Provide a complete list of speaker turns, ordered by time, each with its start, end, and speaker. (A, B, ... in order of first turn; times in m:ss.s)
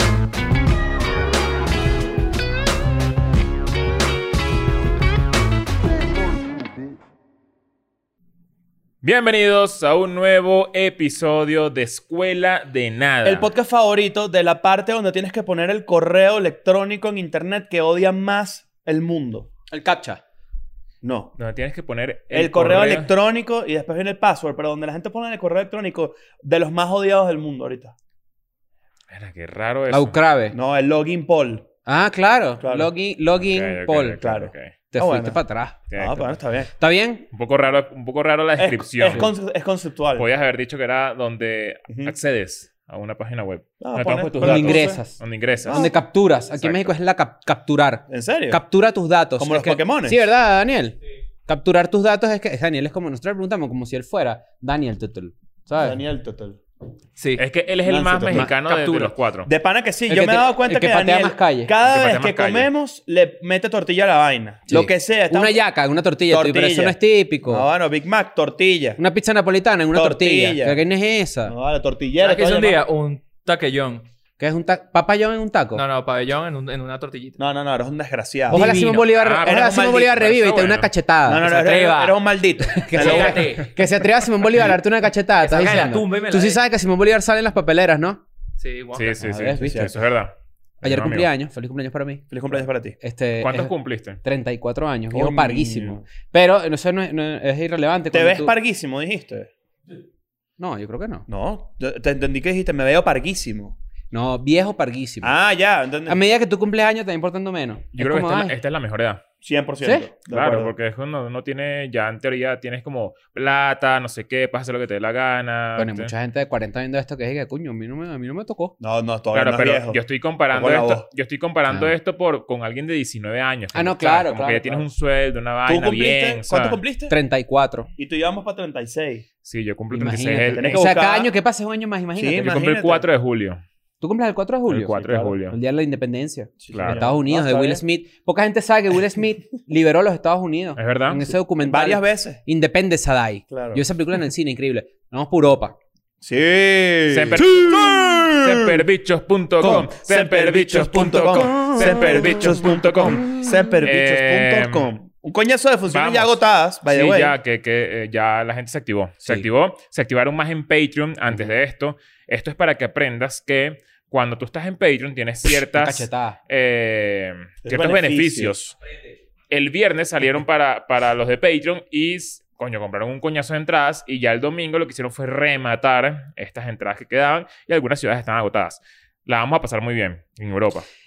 0:09.0-0:13.5 A
0:13.2-0:19.5 B
0:19.7-0:20.2 C
0:21.0-0:21.4 B
0:21.4-0:23.1 A
0:22.3-0:27.9 B
0:29.1-0:30.2 A
0:29.9-0:30.6 C
0:30.5-0:31.6 B
0:31.8-0:34.2 C
0:32.6-0:32.9 B
0:33.4-0:34.8 A
0:34.2-0:35.4 B
0:34.9-0:35.8 C
0:35.9-0:36.4 A
0:36.0-0:36.7 B
0:36.8-0:37.2 C
0:37.3-0:39.3 A
0:38.6-0:40.3 B
0:40.2-0:45.9 A
0:41.9-0:42.1 B
0:43.8-0:45.0 B
0:44.4-0:45.2 C
0:45.6-0:45.9 B
0:45.7-0:56.0 C
0:46.6-0:46.9 A
0:48.1-0:48.6 B
0:49.4-0:50.2 B
0:55.8-0:56.6 B
0:57.2-0:57.4 D
0:57.4-0:59.5 A
0:57.8-0:58.5 B
0:58.6-0:59.1 D
0:59.4-1:05.6 B
1:00.1-1:01.7 C
1:01.8-1:02.7 A
1:04.7-1:07.6 C
1:06.3-1:09.0 B
1:09.0-1:11.5 C
1:09.9-1:10.8 B
1:11.4-1:12.8 B
1:12.2-1:14.0 D
1:14.4-1:15.8 C
1:15.7-1:17.4 D
1:17.4-1:18.8 B
1:18.5-1:19.1 D
1:18.5-1:21.7 C
1:19.1-1:20.9 A
1:19.4-1:20.3 B
1:21.2-1:23.6 B
1:21.4-1:22.2 D
1:22.6-1:28.2 C
1:22.9-1:23.7 D
1:25.4-1:26.6 D
1:28.6-1:29.2 D
1:28.9-1:31.3 A
1:29.2-1:29.9 C
1:29.6-1:29.9 B
1:30.8-1:32.3 C
1:32.3-1:33.0 B
1:33.0-1:38.5 C
1:33.4-1:34.2 A
1:35.1-1:36.0 B
1:38.1-1:39.5 B
1:40.6-1:41.3 C
1:41.3-1:43.8 B
1:44.1-1:45.3 C
1:45.2-1:46.2 B
1:46.1-1:48.6 C
1:47.9-1:49.2 A
1:49.4-1:50.7 B
1:49.8-1:50.1 C
1:50.3-1:56.1 A
1:55.8-1:58.7 C
1:58.8-2:00.0 B
1:59.3-2:06.8 A
2:00.5-2:01.0 B
2:03.7-2:04.8 C
2:05.6-2:07.1 B
2:07.1-2:07.9 C
2:08.0-2:09.2 B
2:09.4-2:10.8 A
2:09.9-2:12.5 C
2:10.5-2:11.3 B
2:12.1-2:13.0 B
2:12.4-2:13.6 A
2:14.0-2:25.7 C
2:14.7-2:15.6 A
2:15.0-2:15.4 B
2:16.6-2:17.8 B
2:16.7-2:17.1 A
2:20.8-2:21.2 A
2:21.6-2:22.4 B
2:23.5-2:23.8 B
2:26.2-2:28.8 B
2:27.1-2:34.9 A
2:29.6-2:37.3 B
2:31.5-2:32.5 C
2:35.9-2:36.3 A
2:36.8-2:48.8 A
2:45.5-2:46.4 C
2:47.6-2:48.5 B
2:49.5-3:00.8 A